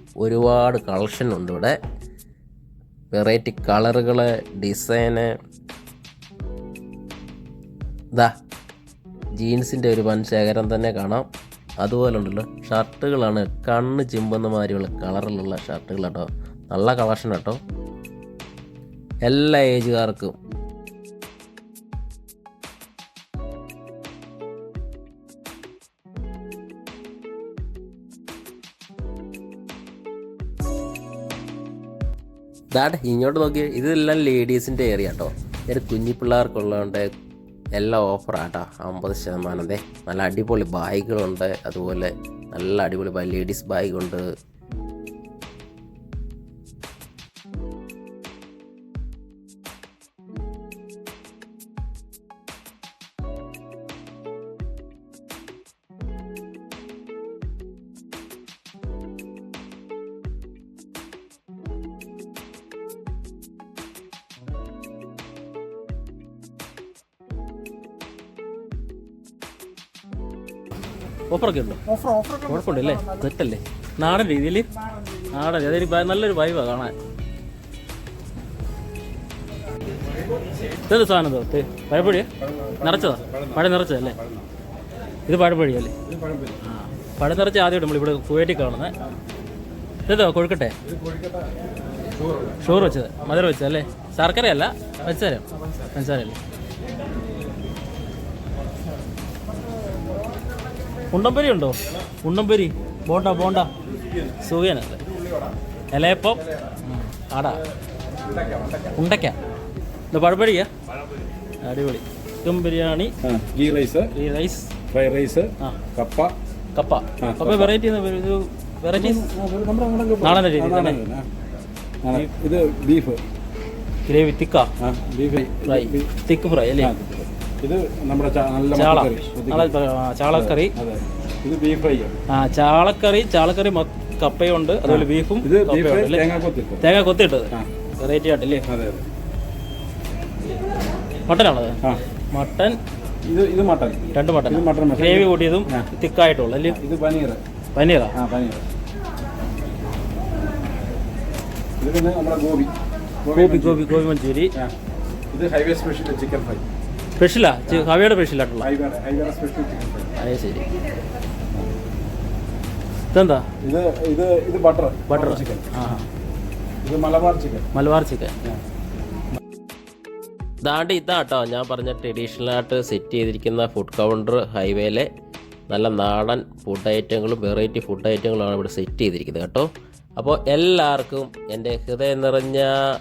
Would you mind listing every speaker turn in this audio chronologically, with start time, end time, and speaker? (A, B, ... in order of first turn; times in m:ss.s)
0:00.2-0:01.8 A
0:03.1-0:05.3 A
0:09.4-0:11.2 A
0:11.8-0:17.6 A
0:19.3-0:20.4 A
0:32.7-0:37.1 A
0:37.8-0:44.2 A
1:11.3-1:14.7 B
1:15.3-1:16.9 B
1:20.9-1:22.3 B
1:22.0-1:24.5 C
1:22.8-1:24.2 B
1:25.3-1:25.9 B
1:26.0-1:26.6 C
1:26.6-1:28.9 B
1:30.1-1:30.7 B
1:30.8-1:31.6 C
1:32.2-1:32.7 C
1:32.6-1:36.4 B
1:41.1-1:43.7 B
1:44.4-1:45.0 B
1:45.9-1:47.6 B
1:48.3-1:48.9 C
1:48.9-1:49.3 B
1:50.1-1:50.7 B
1:51.6-1:53.1 B
1:53.2-1:54.1 C
1:54.1-1:54.7 B
1:54.9-1:56.4 C
1:56.7-1:59.3 B
1:57.2-1:57.7 C
1:58.9-2:01.3 C
2:00.2-2:01.0 B
2:02.0-2:03.2 C
2:04.1-2:04.7 B
2:04.8-2:06.1 C
2:05.6-2:06.9 B
2:06.8-2:09.7 C
2:08.7-2:10.7 B
2:10.3-2:12.1 C
2:12.3-2:16.3 B
2:14.9-2:16.9 C
2:16.8-2:18.6 B
2:18.7-2:19.1 C
2:21.3-2:21.8 B
2:22.3-2:22.8 B
2:23.3-2:25.9 C
2:24.1-2:26.8 B
2:26.7-2:27.4 C
2:27.7-2:28.1 B
2:28.1-2:28.6 C
2:31.8-2:32.7 C
2:33.2-2:33.9 C
2:33.3-2:34.5 B
2:35.3-2:36.6 C
2:37.2-2:38.7 B
2:38.6-2:40.1 C
2:40.2-2:40.6 B
2:43.1-2:43.4 B
2:43.6-2:45.7 C
2:45.1-2:46.1 B
2:46.8-2:47.6 C
2:47.7-2:48.3 B
2:50.6-2:55.1 A
2:55.7-3:02.8 A